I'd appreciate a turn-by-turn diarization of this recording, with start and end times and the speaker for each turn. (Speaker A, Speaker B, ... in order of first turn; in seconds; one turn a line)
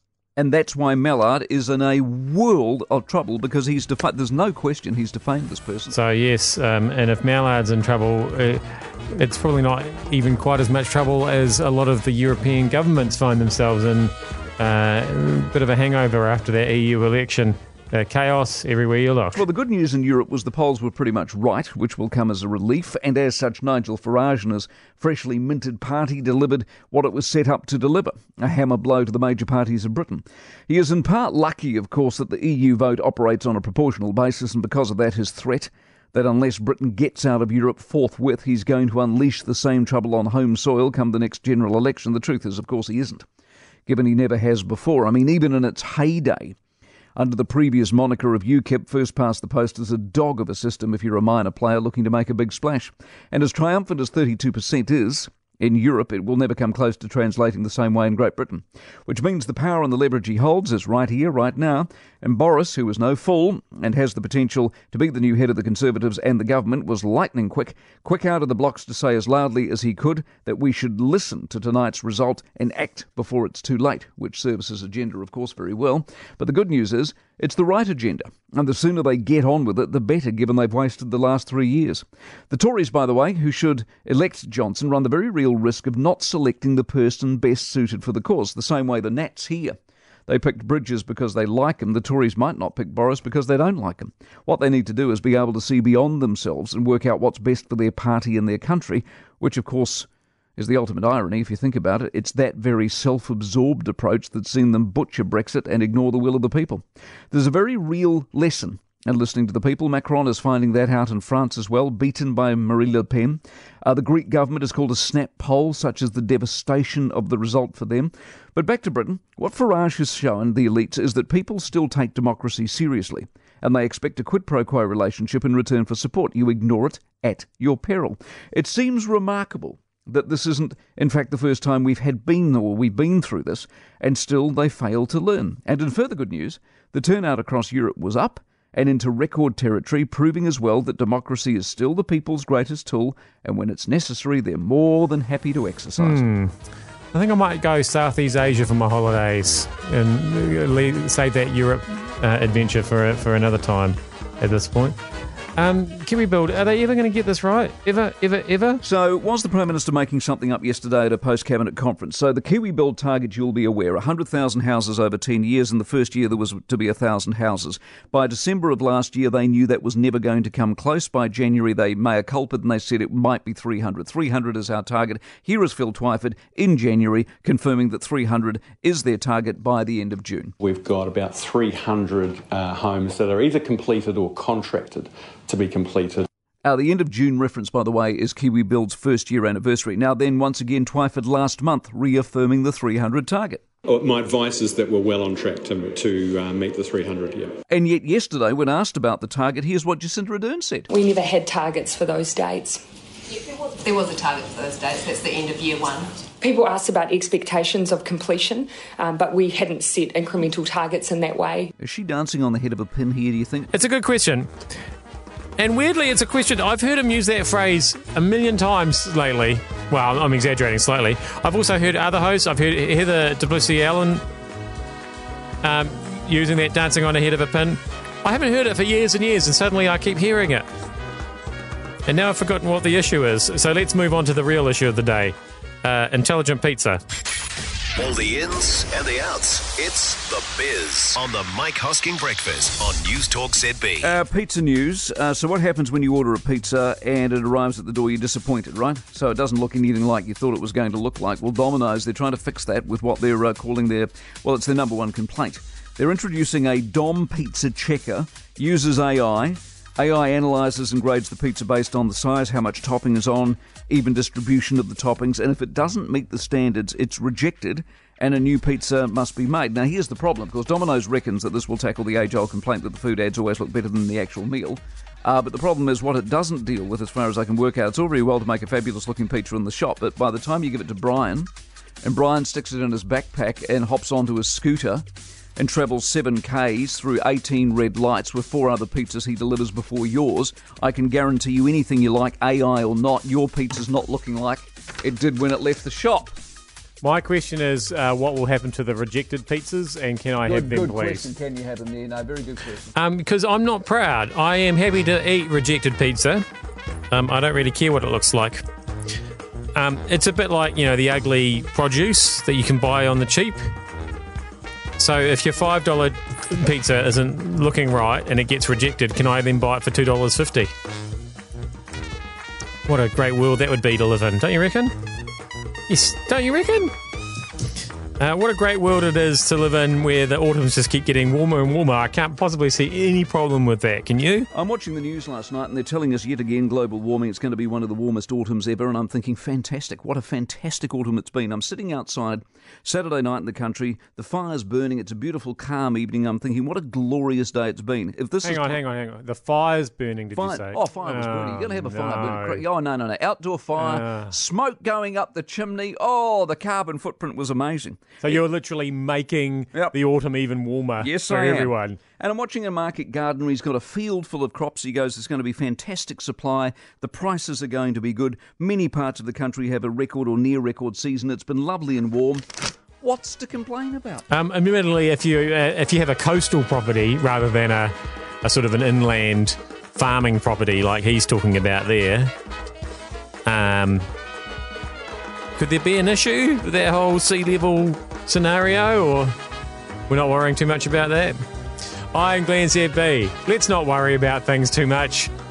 Speaker A: 0.4-6.0
Speaker B: 5.9-19.4
Speaker A: 19.3-43.2
Speaker A: 43.9-46.6
Speaker A: 47.2-89.8
Speaker A: 90.3-146.2
Speaker B: 146.0-146.5
Speaker B: 147.1-155.0
Speaker B: 155.6-158.8
Speaker A: 158.8-180.5
Speaker C: 180.6-186.3
Speaker A: 186.6-193.6
Speaker C: 193.9-197.5
Speaker A: 197.7-200.9
Speaker D: 200.9-202.8
Speaker E: 203.3-206.3
Speaker D: 206.4-211.7
Speaker A: 211.8-213.7
Speaker B: 213.7-214.5
Speaker B: 215.6-224.2
Speaker B: 225.6-230.7
Speaker B: 232.1-237.0
Speaker F: 238.0-244.0
Speaker A: 244.0-281.5
Speaker A: 282.0-285.0
Speaker A: 285.6-296.4
Speaker B: 297.0-301.3
Speaker A: 300.4-302.9
Speaker B: 302.9-306.4
Speaker B: 307.1-308.6
Speaker B: 309.8-313.7
Speaker B: 315.0-320.7
Speaker B: 322.9-324.9
Speaker B: 325.9-326.9
Speaker B: 328.2-334.5
Speaker A: 334.5-348.8
Speaker B: 348.4-352.6
Speaker A: 350.3-358.4
Speaker B: 353.8-354.3
Speaker B: 358.2-362.0
Speaker A: 361.0-374.3
Speaker B: 374.3-382.3
Speaker B: 383.4-384.1
Speaker B: 385.6-389.4
Speaker B: 390.1-391.4
Speaker B: 392.1-395.3